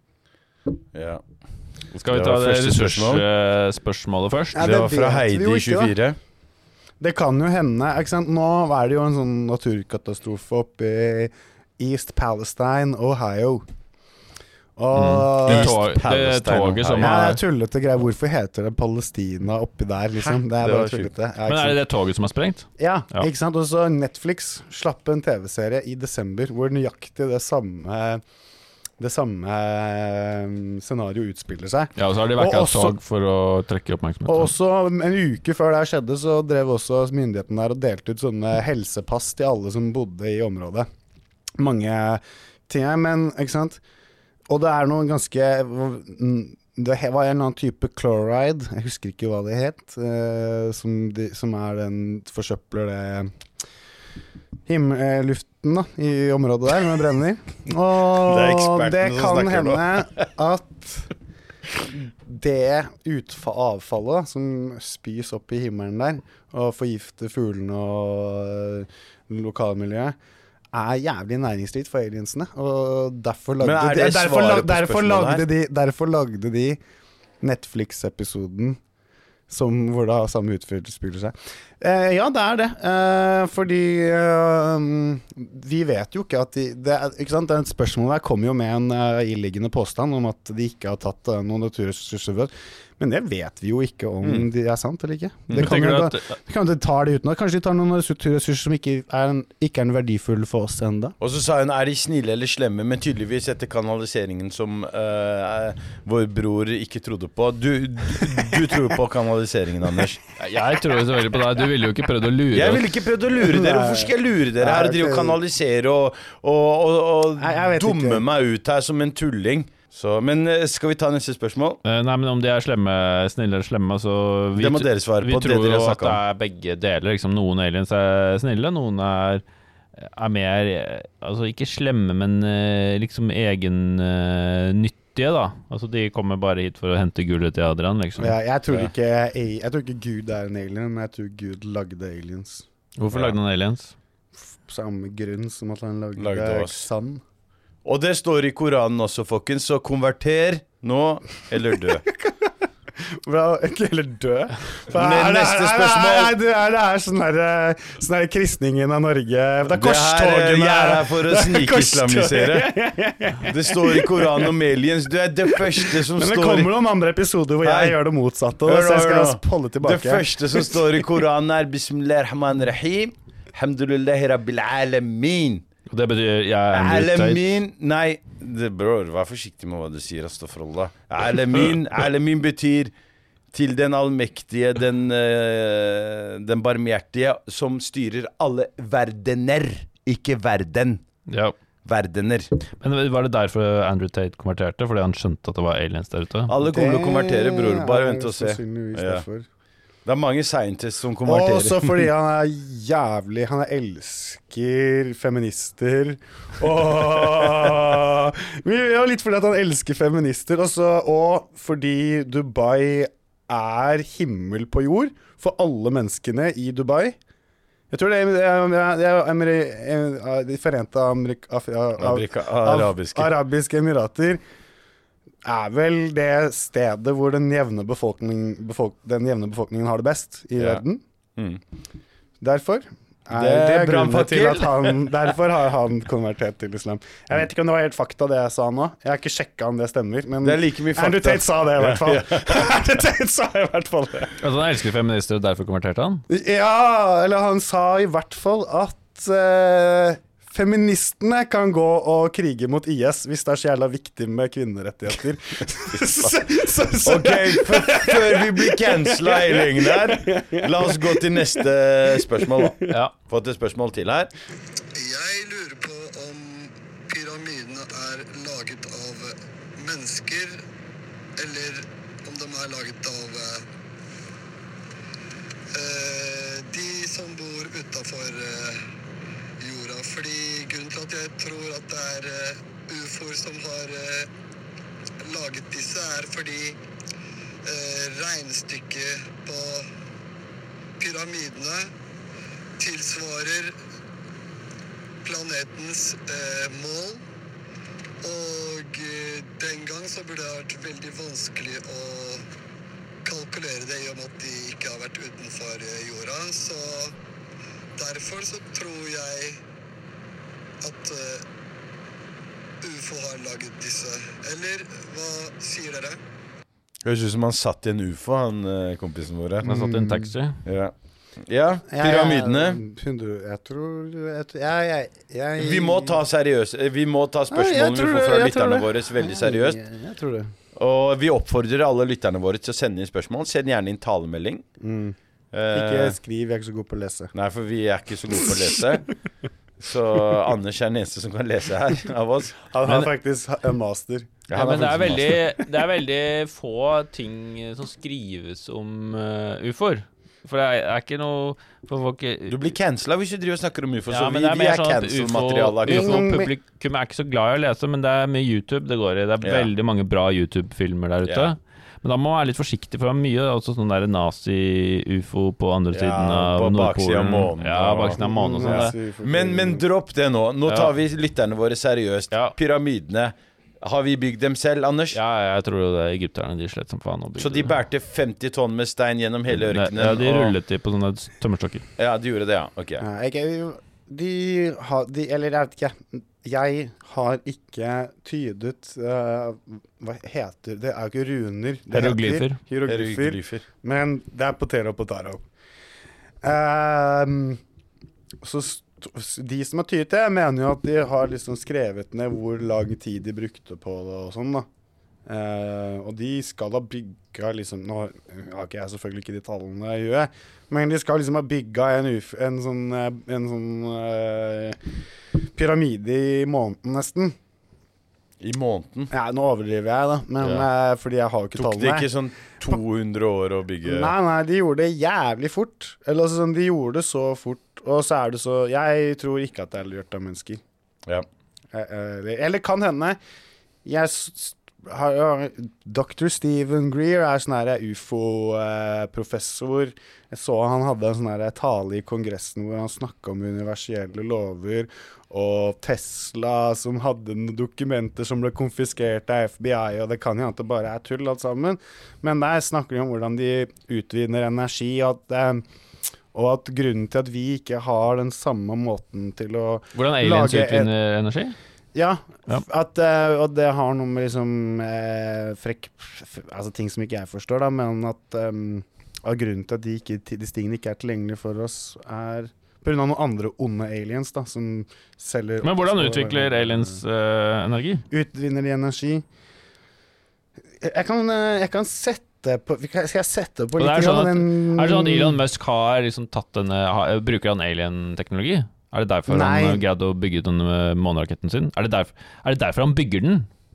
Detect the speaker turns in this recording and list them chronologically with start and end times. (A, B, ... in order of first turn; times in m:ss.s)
0:00.9-0:01.2 A
0:01.9-0:04.6 B
0:02.1-0:03.2 A
0:04.6-0:05.9 C
0:04.6-0:06.2 A
0:07.0-0:13.6 C
0:14.8-0:15.7 C
0:14.9-0:17.4 B
0:15.5-0:17.2 A
0:17.0-0:21.8 C
0:20.6-0:21.1 A
0:21.5-0:23.3 B
0:22.8-0:28.2 C
0:29.0-0:33.0 C
0:32.0-0:34.5 B
0:34.3-0:40.9 C
0:41.6-0:43.8 C
0:44.5-0:53.3 C
0:54.7-1:01.1 C
0:58.2-1:00.2 A
1:02.2-1:10.2 C
1:10.7-1:16.8 C
1:13.6-1:15.5 A
1:17.4-1:18.8 C
1:19.5-1:41.2 C
1:34.2-1:34.5 A
1:35.5-1:36.3 B
1:41.2-1:50.2 A
1:50.4-1:52.9 B
1:52.5-2:01.8 A
1:53.4-1:55.4 C
1:57.4-1:58.2 C
2:01.8-2:09.4 B
2:04.6-2:06.2 A
2:10.0-2:18.4 B
2:18.2-2:22.6 C
2:23.0-2:23.9 B
2:23.1-2:23.4 A
2:24.6-2:27.2 C
2:26.2-2:26.9 A
2:27.8-2:32.0 A
2:33.2-2:44.5 C
2:34.9-2:36.4 A
2:39.7-2:42.7 A
2:43.4-2:46.7 A
2:45.5-2:51.0 C
2:47.6-2:48.0 A
2:48.7-2:55.7 A
2:55.9-2:57.5 B
2:56.7-3:02.9 A
3:03.5-3:11.0 A
3:11.3-3:11.5 B
3:11.8-3:12.5 A
3:12.8-3:16.5 B
3:16.5-3:19.2 A
3:16.6-3:19.5 C
3:20.1-3:22.1 A
3:21.2-3:37.2 C
3:37.9-3:44.4 C
3:42.0-3:43.3 A
3:45.4-3:51.0 C
3:50.6-3:50.8 A
3:52.4-4:04.4 C
3:53.3-3:55.2 A
4:00.4-4:02.8 A
4:04.4-4:06.2 B
4:06.3-4:21.6 C
4:17.0-4:24.3 A
4:22.4-4:22.9 C
4:25.0-4:30.6 D
4:31.4-4:33.7 D
4:35.7-4:38.9 D
4:39.6-4:44.3 D
4:45.2-4:46.8 D
4:47.6-4:49.9 D
4:51.0-4:51.9 D
4:52.8-4:53.8 D
4:55.2-4:57.2 D
4:58.2-5:02.5 D
5:03.2-5:07.2 D
5:08.0-5:09.6 D
5:10.8-5:11.5 D
5:12.8-5:16.2 D
5:17.0-5:19.7 A
5:19.6-5:20.3 C
5:19.6-5:20.6 B
5:20.6-5:22.8 A
5:21.9-5:26.2 C
5:25.6-5:29.8 A
5:27.5-5:30.5 C
5:30.8-5:34.6 A
5:34.8-5:35.2 C
5:35.5-5:36.2 A
5:35.7-5:37.3 C
5:37.3-5:39.1 A
5:39.8-5:42.6 A
5:42.7-5:44.5 C
5:44.5-5:45.4 A
5:44.6-5:52.6 B
5:52.5-5:56.3 A
5:54.1-6:09.0 B
5:55.9-5:56.5 C
5:59.4-5:59.7 A
6:01.2-6:01.5 A
6:05.9-6:15.2 A
6:08.2-6:09.8 C
6:15.1-6:17.7 B
6:17.4-6:20.6 A
6:19.6-6:21.9 B
6:22.0-6:23.0 A
6:23.0-6:35.4 C
6:31.9-6:32.6 B
6:32.9-6:33.6 A
6:36.4-6:37.6 C
6:38.4-6:44.7 C
6:45.3-6:54.8 C
6:55.5-6:57.4 C
6:58.4-6:59.1 A
6:59.1-7:02.1 C
7:00.4-7:00.7 A
7:01.6-7:04.1 A
7:03.8-7:10.6 C
7:11.7-7:13.2 C
7:13.8-7:35.6 C
7:36.3-7:40.9 C
7:40.0-7:41.6 B
7:41.9-7:57.0 C
7:55.6-7:58.1 B
7:58.1-7:59.2 C
8:00.8-8:05.4 C
8:03.8-8:13.5 B
8:09.3-8:09.8 C